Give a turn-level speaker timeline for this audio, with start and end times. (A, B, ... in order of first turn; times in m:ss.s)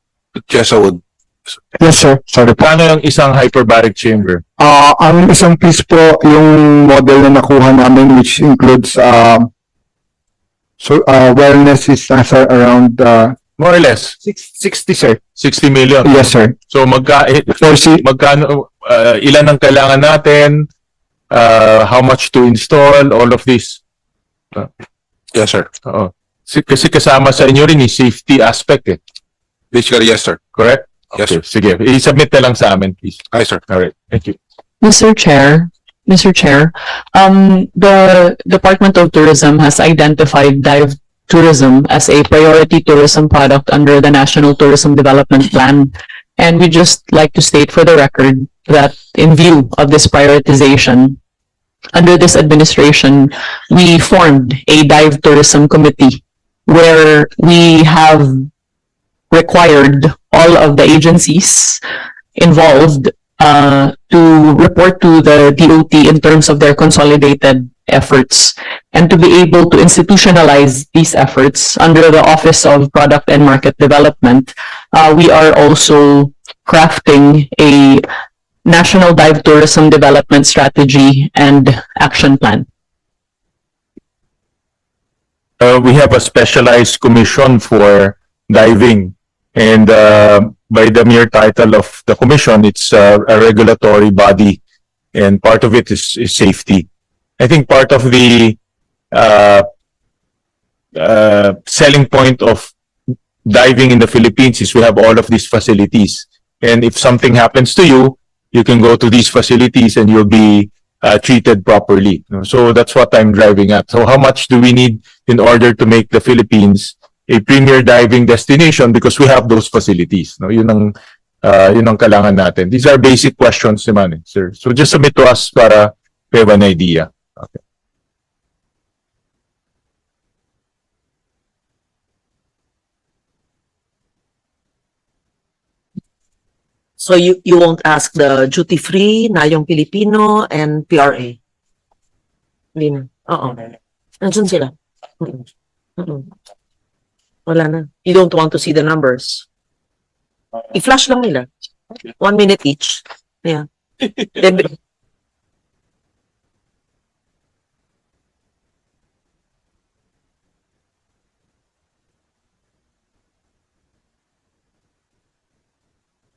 0:00.5-0:01.0 A
0:01.8-0:02.6 B
0:02.6-0:04.4 C
0:04.6-0:09.5 B
0:10.8-0:13.4 B
0:13.6-0:14.2 C
0:14.2-0:15.2 B
0:15.4-0:20.7 C
0:16.0-0:16.6 B
0:17.6-0:18.0 B
0:21.3-0:23.8 C
0:25.3-0:25.7 A
0:25.8-0:29.0 C
0:29.7-0:30.4 A
0:30.6-0:34.4 C
0:33.3-0:33.6 A
0:34.8-0:51.2 D
0:51.9-0:58.5 D
0:59.3-1:01.8 D
1:02.4-1:18.1 D
1:18.6-1:22.7 D
1:25.6-1:34.6 C
1:35.2-1:36.9 C
1:37.4-1:38.6 C
1:39.1-1:39.7 C
1:41.0-1:42.7 C
1:43.4-2:07.6 C
2:17.0-2:21.4 E
2:22.8-2:25.4 E
2:26.0-2:26.3 E
2:27.5-2:29.4 E
2:30.7-2:31.5 E
2:32.0-2:33.6 E
2:34.3-2:34.7 E